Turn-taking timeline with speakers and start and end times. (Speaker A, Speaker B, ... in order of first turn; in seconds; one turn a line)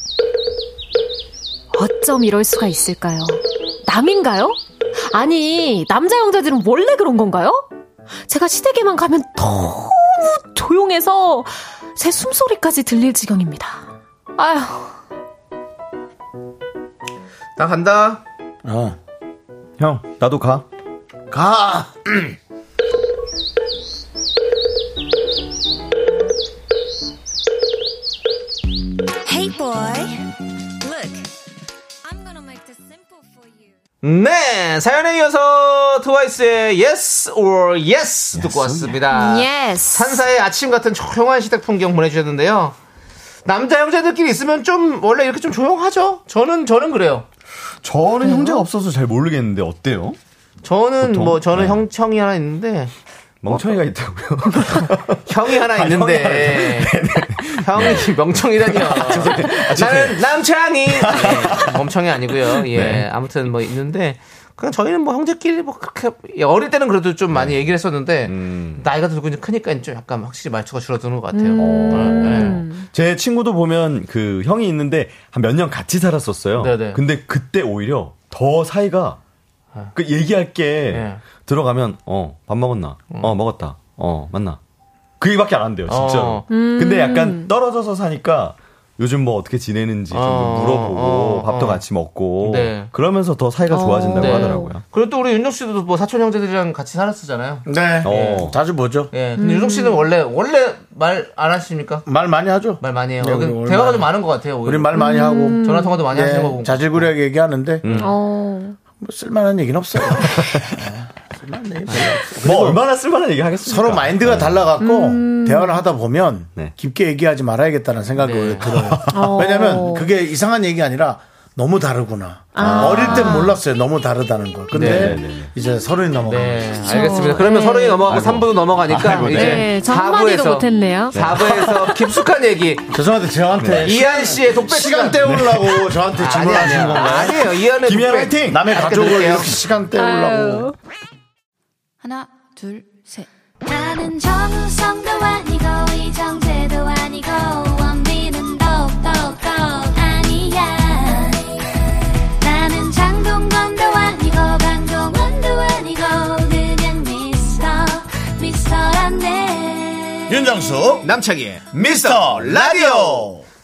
Speaker A: 1.7-7.7
Speaker A: 8.3-14.9
Speaker B: 17.6-18.2
Speaker C: 18.6-19.0
Speaker D: 19.8-20.6
Speaker C: 21.3-22.3
Speaker E: 29.3-30.1
Speaker E: 32.0-33.7
Speaker B: 34.0-42.8
Speaker D: 38.3-39.1
Speaker A: 39.1-40.2
Speaker B: 43.5-47.2
Speaker D: 47.8-50.2
Speaker A: 48.2-48.6
Speaker B: 50.6-52.9
Speaker D: 51.0-51.8
Speaker D: 53.4-60.2
Speaker B: 55.3-56.9
Speaker B: 57.6-72.6
Speaker D: 60.9-61.8
Speaker D: 62.4-63.1
Speaker D: 67.3-67.6
Speaker D: 68.3-68.9
Speaker A: 71.3-72.8
Speaker D: 71.6-79.2
Speaker B: 76.6-77.0
Speaker D: 79.9-84.6
Speaker B: 80.9-81.2
Speaker D: 85.2-94.8
Speaker B: 85.9-86.4
Speaker A: 86.5-87.5
Speaker B: 90.1-91.8
Speaker B: 92.4-92.9
Speaker A: 93.7-94.7
Speaker B: 94.2-98.4
Speaker C: 97.7-99.1
Speaker D: 98.0-98.6
Speaker B: 99.1-102.0
Speaker A: 99.4-100.0
Speaker C: 102.0-104.1
Speaker B: 102.8-105.1
Speaker C: 104.6-107.8
Speaker A: 104.9-106.0
Speaker B: 105.6-107.1
Speaker B: 107.8-108.1
Speaker D: 107.8-108.1
Speaker A: 108.0-108.8
Speaker C: 109.0-112.8
Speaker D: 110.2-110.6
Speaker D: 112.4-114.6
Speaker C: 113.6-126.7
Speaker A: 114.8-115.8
Speaker B: 118.2-118.7
Speaker D: 118.7-119.3
Speaker A: 119.1-120.1
Speaker A: 122.5-123.6
Speaker D: 122.6-123.3
Speaker D: 124.7-125.5
Speaker B: 124.7-125.2
Speaker B: 126.3-132.8
Speaker A: 126.8-128.1
Speaker D: 128.0-129.7
Speaker A: 129.1-131.2
Speaker D: 131.2-132.0
Speaker C: 132.9-137.4
Speaker D: 133.6-134.0
Speaker B: 133.8-135.3
Speaker D: 135.3-135.6
Speaker B: 136.2-139.5
Speaker D: 137.8-138.8
Speaker C: 138.4-140.7
Speaker A: 139.9-140.7
Speaker E: 143.7-151.4
Speaker E: 152.4-160.2
Speaker C: 160.3-161.1
Speaker B: 161.0-163.3
Speaker C: 161.7-163.4
Speaker D: 162.1-163.3